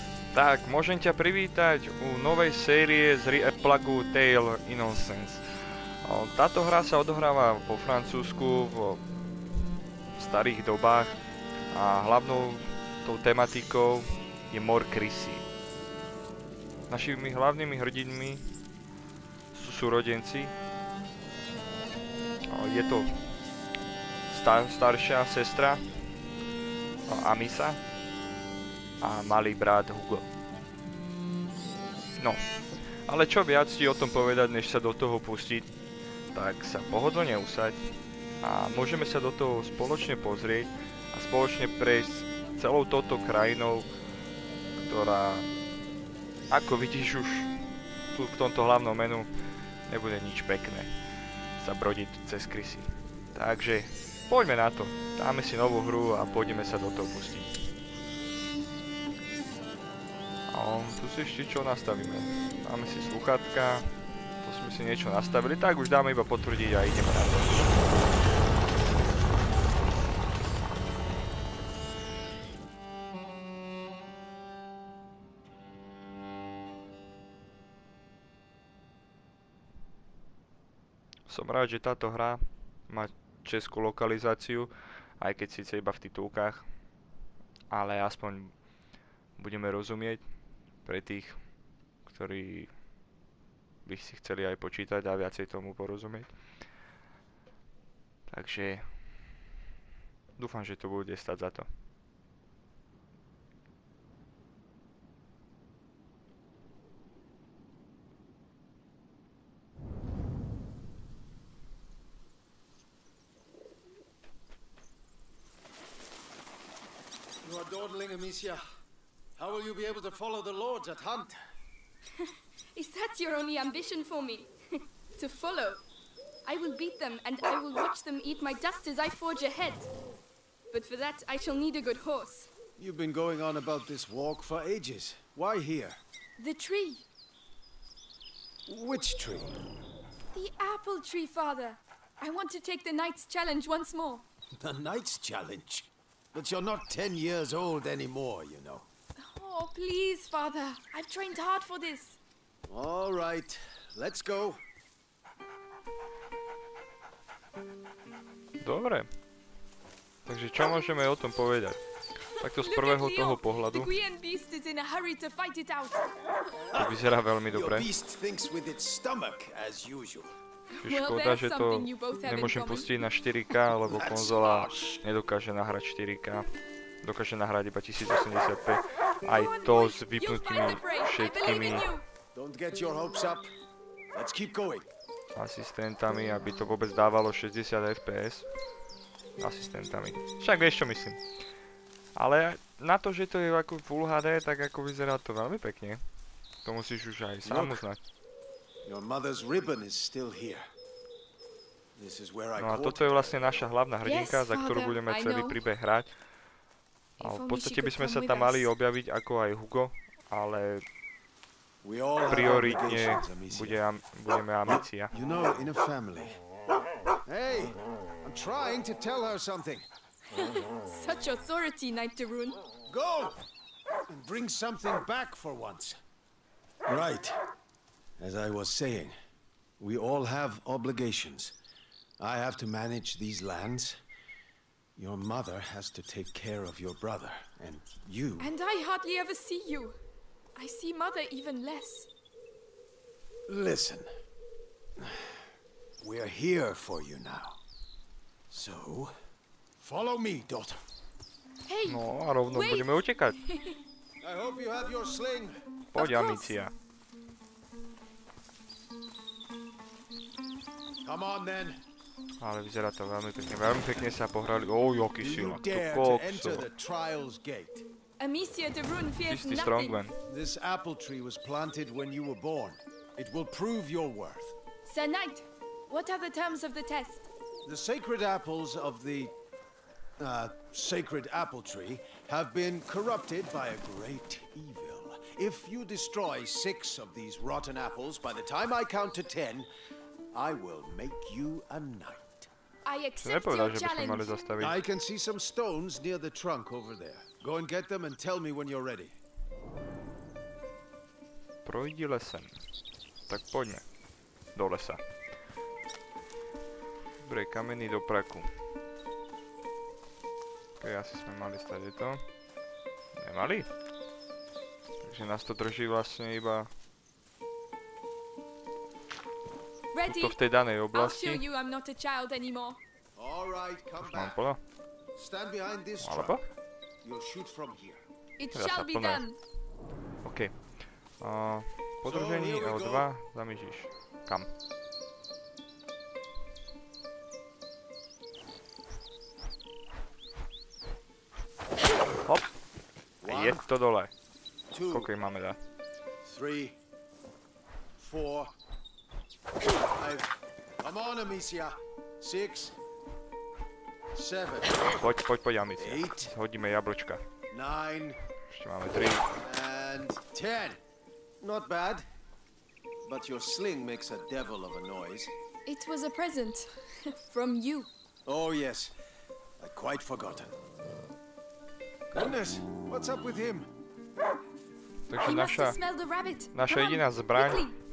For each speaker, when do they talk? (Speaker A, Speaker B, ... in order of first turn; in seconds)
Speaker A: 0.3-5.4, 6.0-9.0, 10.2-11.2, 11.7-15.4, 16.9-18.4, 19.5-20.5, 22.5-23.1, 24.3-25.8, 27.1-27.8, 29.0-30.2, 32.2-32.4, 33.1-35.7, 36.3-37.9, 38.4-43.9, 44.8-45.5, 46.5-47.5, 48.1-49.3, 49.9-50.9, 51.6-57.5, 60.5-63.9, 64.4-67.6, 81.3-86.7, 87.7-88.5, 89.4-90.2, 90.8-91.4, 92.0-92.7, 93.8-96.3, 98.3-99.0, 100.4-101.7, 158.6-159.1, 160.3-161.8, 162.4-163.9, 166.7-167.9, 170.8-176.4, 177.0-181.9, 185.4-188.5, 189.4-191.2, 192.2-196.0, 196.7-198.0, 202.6-206.1, 207.2-210.8, 212.3-215.1, 251.8-253.4, 255.9-256.7, 262.4-266.7, 269.2-270.1, 293.2-294.8, 301.6-302.6, 303.3-303.9, 304.6-305.0, 307.2-308.5, 310.8-312.2, 313.2-313.7, 315.0-316.7, 320.1-321.4, 324.0-324.6, 326.0-326.4, 328.5-329.2, 330.2-330.6, 331.2-334.5, 343.2-344.1, 344.9-345.6, 355.0-357.2, 358.5-359.2, 375.1-375.8, 376.5-377.7
Speaker B: 117.4-118.6, 119.4-121.4, 132.8-136.0, 138.7-139.6, 144.6-148.9, 152.7-154.6, 166.7-170.4, 173.9-175.0, 182.3-183.5, 184.1-184.9, 197.4-197.8, 198.8-200.7, 202.0-203.7, 211.8-213.8, 214.7-216.4, 217.2-219.9, 222.9-223.4, 224.1-226.0, 226.9-227.4, 228.2-229.1, 229.8-231.6, 232.2-234.0, 235.0-238.5, 243.5-244.1, 245.0-245.4, 246.0-247.6, 248.5-249.1, 249.8-250.8, 254.2-255.6, 261.0-261.8, 265.2-267.9, 270.3-274.6, 277.6-279.3, 280.2-289.7, 290.3-292.5, 294.6-299.1, 323.1-324.4, 325.1-326.5, 327.0-328.0, 332.1-333.1, 343.2-343.6, 344.7-345.1, 346.2-346.8, 348.0-348.5, 349.9-352.8, 354.1-354.9, 355.8-356.3, 357.5-358.2, 359.3-360.8, 361.4-362.1, 363.0-365.3, 368.3-368.9, 369.6-370.6, 372.1-373.7
Speaker C: 122.8-124.5, 125.2-125.8, 126.5-129.9, 130.7-132.5, 136.4-137.1, 140.3-144.3, 149.2-152.2, 162.4-166.1, 170.7-172.9, 179.2-182.0, 204.0-205.6, 207.2-208.7, 220.3-222.6, 238.4-240.0, 240.6-242.1, 251.7-252.9, 253.4-253.8, 256.0-256.5, 268.2-270.0, 274.9-277.3, 292.9-294.4, 319.9-320.4, 320.9-322.8, 328.4-329.4, 365.7-367.9, 375.2-377.8